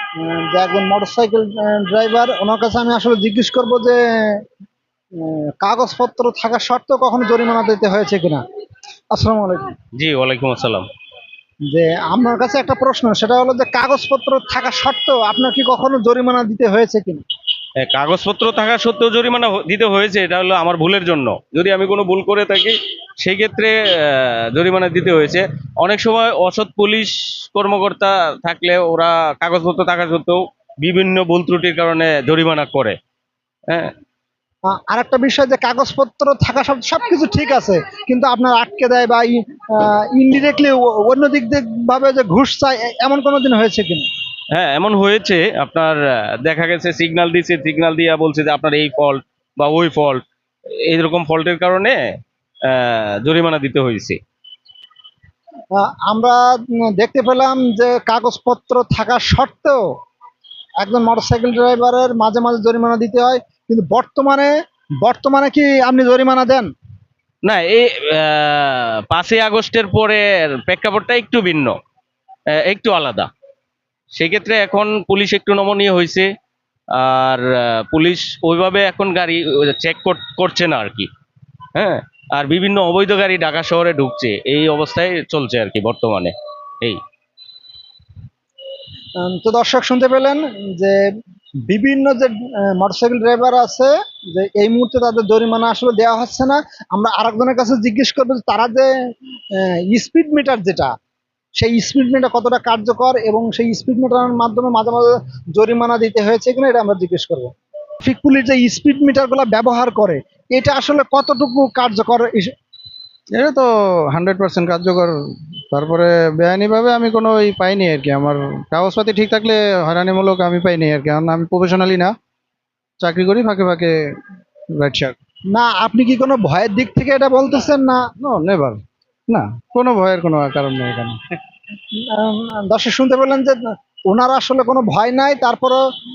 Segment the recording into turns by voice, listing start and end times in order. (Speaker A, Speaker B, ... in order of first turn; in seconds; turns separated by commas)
Speaker A: 0.2-4.4, Speaker A: 5.2-8.4, Speaker A: 9.1-9.7, Speaker B: 10.0-10.9, Speaker A: 11.7-17.2, Speaker B: 17.8-33.0, Speaker A: 34.7-44.1, Speaker B: 44.5-50.2, Speaker B: 50.9-52.0, Speaker B: 52.7-54.2, Speaker A: 55.7-56.4, Speaker A: 57.0-59.8, Speaker A: 60.8-64.5, Speaker A: 65.0-66.7, Speaker B: 67.4-71.7, Speaker B: 72.6-73.3, Speaker B: 74.1-76.3, Speaker B: 76.9-81.1, Speaker B: 81.7-87.0, Speaker A: 89.2-91.0, Speaker A: 91.7-98.9, Speaker A: 99.6-100.9, Speaker A: 101.6-107.5, Speaker A: 108.0-112.5, Speaker C: 113.3-115.2, Speaker C: 115.7-122.1, Speaker C: 123.0-124.0, Speaker C: 124.8-125.2, Speaker A: 125.5-128.1, Speaker C: 128.2-131.2, Speaker A: 132.1-133.6, Speaker A: 134.1-135.8